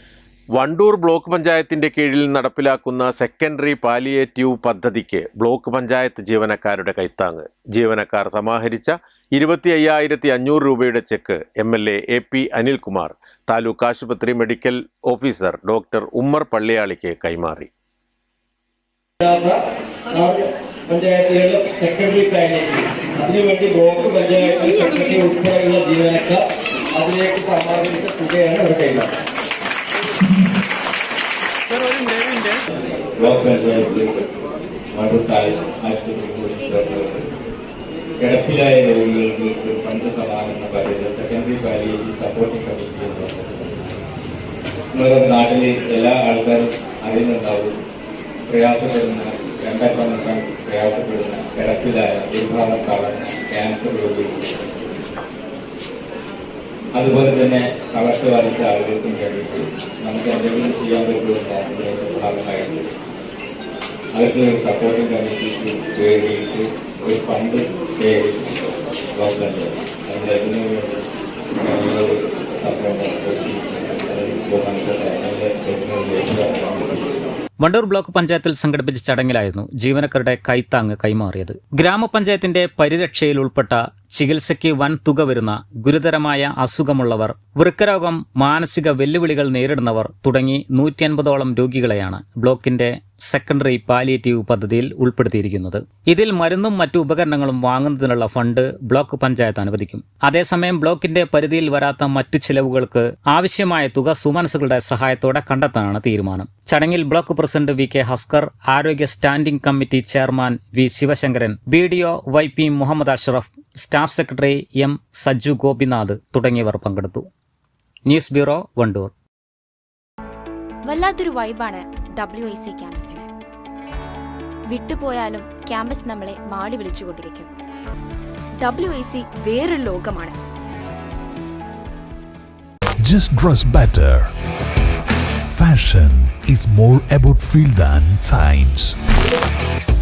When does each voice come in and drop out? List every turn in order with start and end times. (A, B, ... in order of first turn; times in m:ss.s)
0:00.5-0:17.7 A
0:19.2-0:19.6 B
0:20.1-0:26.4 B
0:26.9-0:29.1 B
0:33.2-0:34.2 C
0:34.9-0:37.2 C
0:38.2-0:44.0 C
0:44.9-0:47.7 C
0:48.5-0:54.6 C
0:57.0-1:02.9 C
1:04.1-1:08.5 C
1:09.1-1:11.0 C
1:11.6-1:17.1 C
1:17.6-1:57.3 D
1:58.1-1:59.1 D
2:00.9-2:03.3 E
2:04.7-2:07.5 E
2:08.6-2:10.4 E
2:13.0-2:14.3 F
2:15.5-2:19.0 F